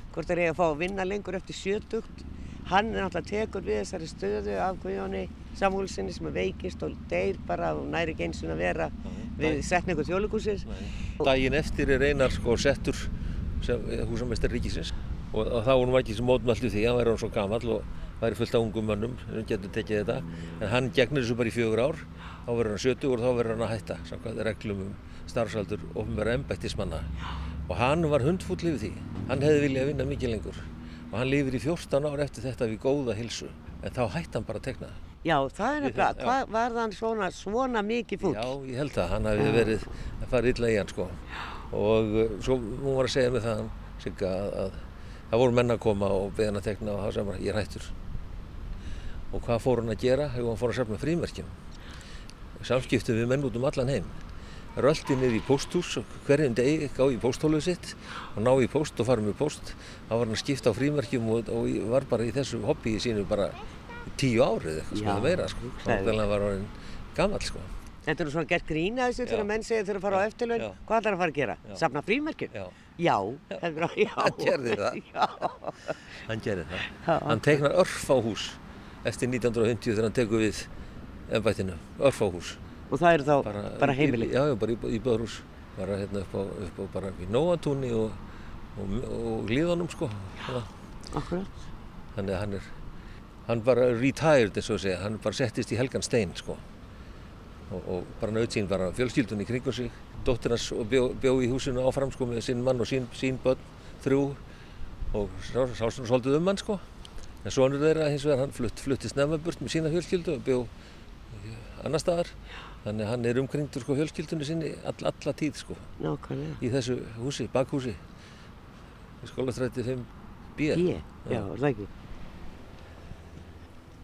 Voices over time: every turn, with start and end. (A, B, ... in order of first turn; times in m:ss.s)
0:00.1-0:10.7 A
0:09.0-0:09.6 B
0:10.7-0:27.1 B
0:27.7-0:35.0 B
0:35.2-0:38.5 A
0:35.8-0:36.4 B
0:38.2-0:47.9 B
0:39.4-0:39.8 A
0:49.3-0:51.5 B
0:52.6-0:54.2 B
0:54.8-1:07.7 B
1:04.9-1:06.2 A
1:08.1-1:16.0 A
1:10.1-1:10.8 B
1:13.5-1:15.0 B
1:16.2-1:20.7 B
1:16.9-1:17.6 A
1:21.3-1:22.6 B
1:22.9-1:24.3 A
1:23.4-1:28.2 B
1:28.8-1:30.7 B
1:31.1-1:31.5 A
1:32.2-1:32.8 B
1:33.5-1:36.6 B
1:37.7-1:44.4 B
1:45.1-1:46.8 B
1:47.4-1:50.7 B
1:51.3-1:52.3 B
1:52.8-1:55.9 B
1:56.0-1:56.6 A
1:56.6-1:58.0 B
1:59.2-2:01.5 B
2:00.7-2:01.9 A